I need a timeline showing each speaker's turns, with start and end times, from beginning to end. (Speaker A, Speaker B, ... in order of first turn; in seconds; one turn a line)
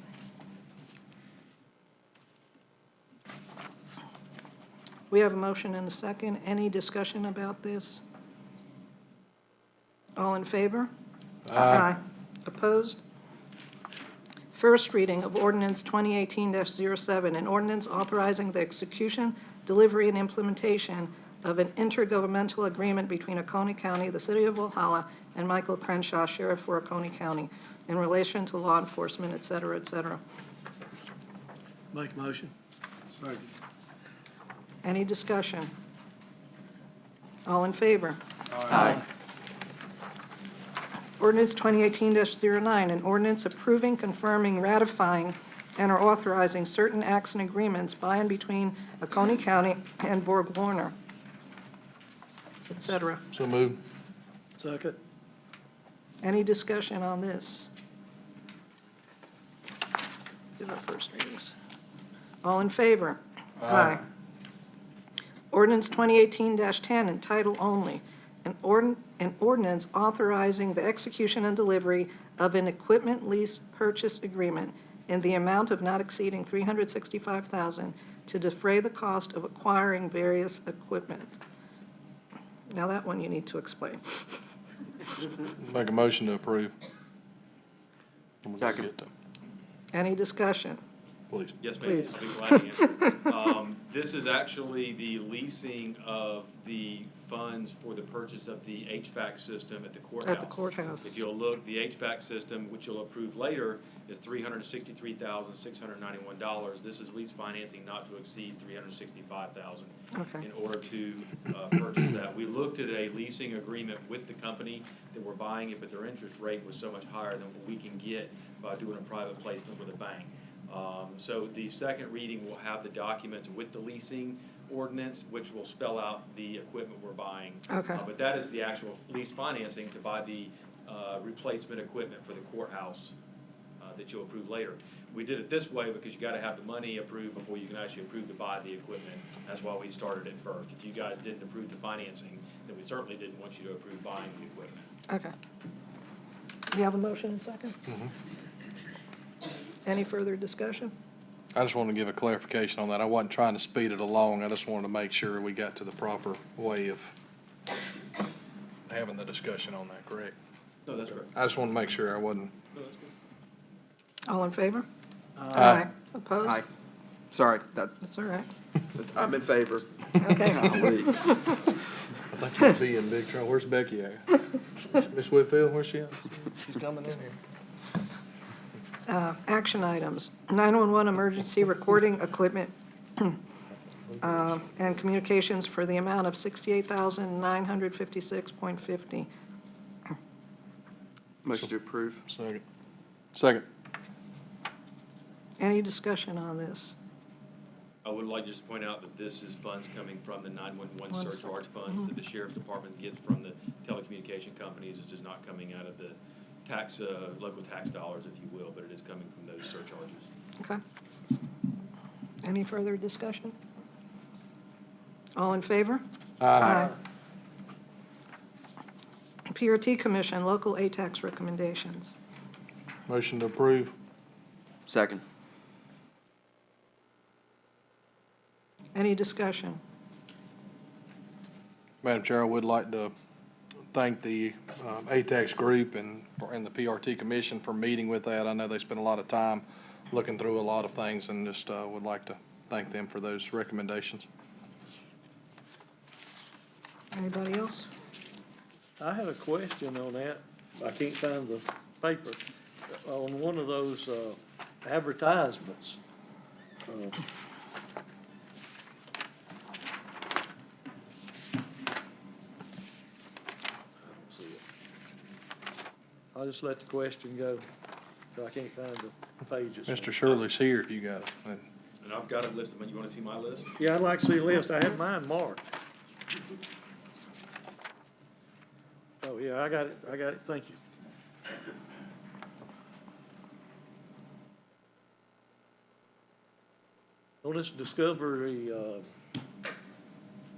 Speaker A: 5.1-8.0
Speaker A: 10.2-10.9
Speaker B: 11.5-11.9
Speaker A: 11.5-13.0
Speaker A: 14.5-30.2
Speaker C: 31.9-32.5
Speaker A: 34.8-35.7
Speaker A: 37.5-38.2
Speaker D: 38.7-39.0
Speaker A: 41.2-50.9
Speaker A: 52.7-53.2
Speaker B: 53.3-53.8
Speaker C: 54.6-55.0
Speaker A: 56.2-57.7
Speaker A: 60.6-61.5
Speaker A: 62.4-64.0
Speaker B: 63.6-64.0
Speaker A: 65.5-81.3
Speaker A: 82.7-84.2
Speaker B: 85.5-86.7
Speaker B: 88.4-89.1
Speaker D: 88.6-88.9
Speaker A: 89.9-90.8
Speaker B: 91.3-91.6
Speaker E: 91.6-133.2
Speaker A: 92.5-93.2
Speaker A: 100.2-101.2
Speaker A: 110.1-110.5
Speaker A: 127.7-128.1
Speaker E: 133.8-144.8
Speaker A: 146.7-147.8
Speaker A: 149.8-150.9
Speaker B: 151.6-157.1
Speaker B: 158.9-160.3
Speaker E: 160.9-161.3
Speaker B: 161.1-162.5
Speaker E: 162.8-163.1
Speaker A: 164.3-164.8
Speaker A: 165.5-166.6
Speaker B: 165.6-165.8
Speaker D: 167.3-168.0
Speaker A: 168.0-168.5
Speaker D: 168.9-171.2
Speaker A: 170.2-171.6
Speaker B: 172.3-177.3
Speaker A: 179.1-183.4
Speaker A: 184.2-189.3
Speaker D: 191.4-192.2
Speaker B: 192.3-192.6
Speaker B: 193.3-193.7
Speaker A: 195.6-196.9
Speaker E: 198.0-210.3
Speaker A: 201.1-202.1
Speaker A: 212.4-213.6
Speaker A: 215.3-216.0
Speaker B: 216.4-216.8
Speaker A: 216.5-216.9
Speaker D: 216.6-216.8
Speaker A: 219.5-222.1
Speaker B: 223.1-223.9
Speaker D: 224.9-225.2
Speaker A: 228.9-229.8
Speaker B: 232.0-233.1
Speaker B: 233.9-244.3
Speaker A: 247.1-247.8
Speaker C: 249.0-252.4
Speaker C: 253.0-256.0
Speaker C: 256.9-257.2
Speaker C: 264.0-264.6
Speaker C: 266.4-267.6
Speaker C: 268.4-270.2
Speaker B: 269.9-271.6
Speaker E: 272.0-273.7
Speaker C: 273.8-275.7
Speaker C: 279.2-280.8
Speaker C: 287.4-289.0